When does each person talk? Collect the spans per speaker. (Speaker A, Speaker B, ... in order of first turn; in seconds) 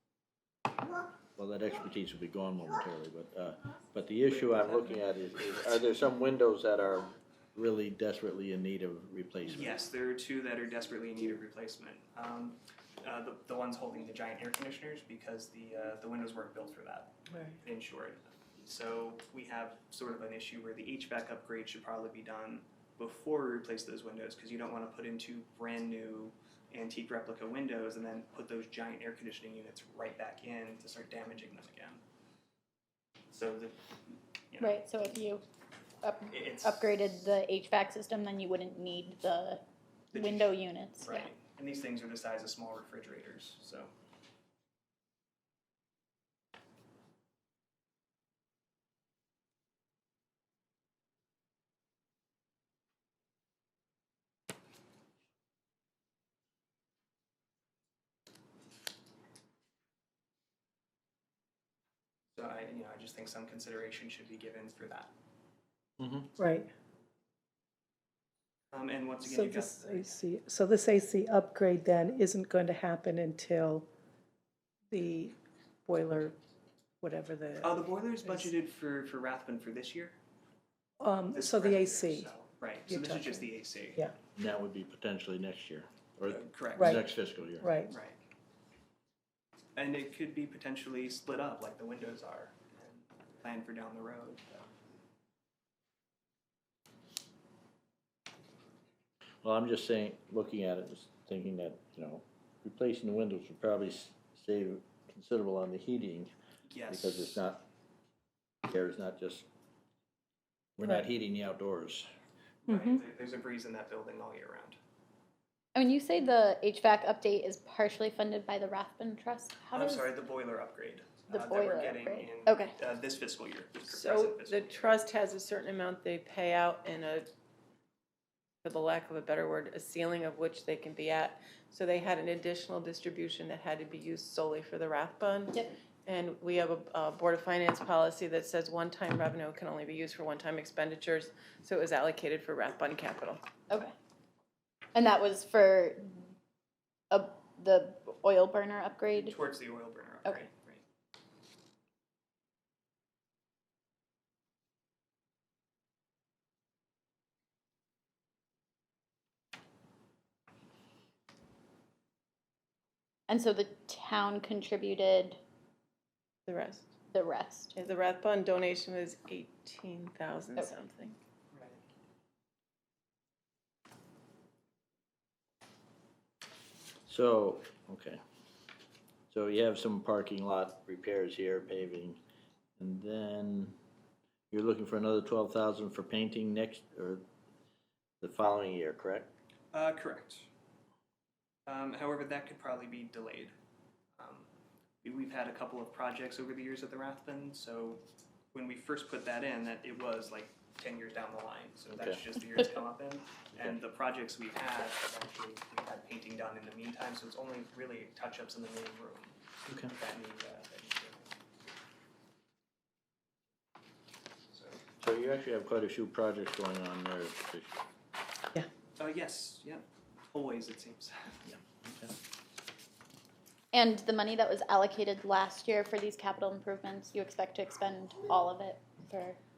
Speaker A: 1.4-9.8, 66.0-66.3, 84.4-87.7, 99.4-106.3, 106.9-107.6, 108.7-109.5, 110.8-112.1, 177.1-178.2, 179.3-182.2, 182.8-183.8, 184.5-187.2, 188.2-189.3, 202.0-202.2, 209.7-209.9, 215.0-217.8, 221.5-222.1
Speaker B: 4.3-5.0, 9.4-32.0, 33.3-33.8, 34.5-34.8, 36.3-37.0, 40.1-43.9, 62.4-65.1, 68.7-70.2, 77.6-80.2, 81.3-84.0, 86.3-87.0, 87.9-88.2, 89.8-94.7, 106.7-107.4, 112.7-114.8, 119.8-125.0, 149.1-150.8, 171.5-171.8, 189.7-190.5, 191.7-193.5, 194.2-194.5, 195.0-209.4, 209.9-211.3, 214.5-214.8, 219.0-221.4
Speaker C: 34.6-35.4, 36.0-39.6, 40.1-41.3, 115.8-120.1, 121.3-122.7, 144.9-146.2, 147.1-149.4, 163.3-165.4, 167.1-167.7, 223.7-229.4
Speaker D: 66.4-66.7, 69.2-73.9, 74.9-75.3, 75.9-76.3, 77.0-78.5, 81.0-82.3, 82.9-83.5, 86.8-87.0, 87.6-88.0, 112.7-113.0
Speaker E: 123.9-127.3, 128.6-143.4, 166.5-166.9, 167.8-171.2